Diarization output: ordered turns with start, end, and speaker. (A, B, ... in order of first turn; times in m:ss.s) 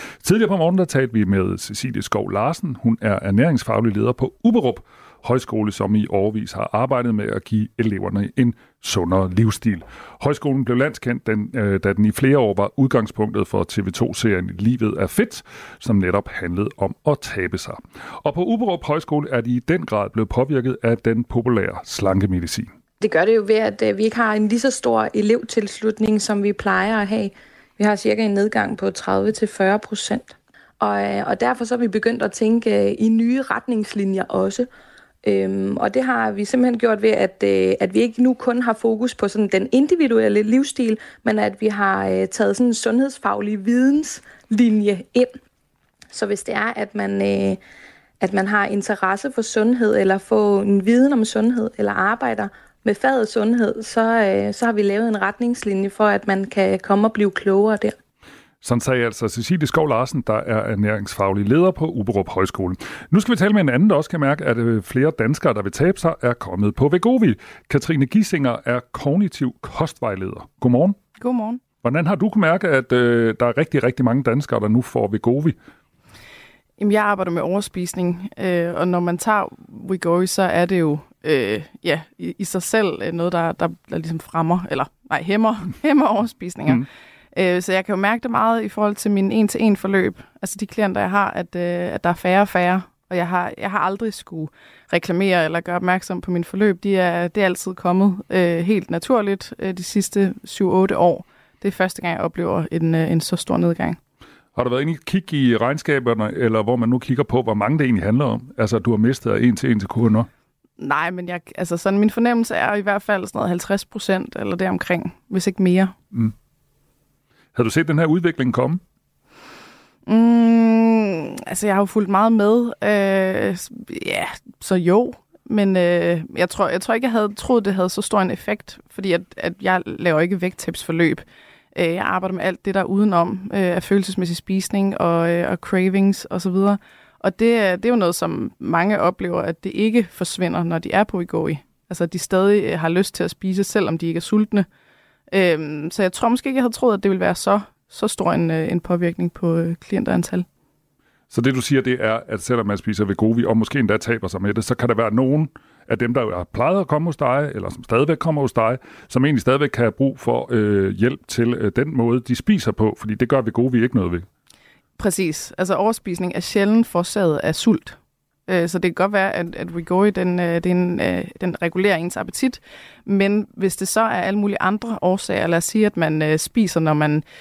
0:00.2-0:22.7 A
0:23.0-0:34.7 B
0:35.2-0:45.3 B
0:46.1-0:47.6 B
0:48.2-0:57.9 B
0:58.6-1:11.0 A
1:11.2-1:11.6 C
1:11.8-1:15.6 A
1:16.8-1:44.0 C
1:44.5-1:50.3 A
1:50.8-1:55.9 C
1:57.5-1:58.8 A
2:00.1-2:24.6 C
2:25.3-2:30.4 C
2:31.3-2:44.2 A
2:45.0-2:57.2 C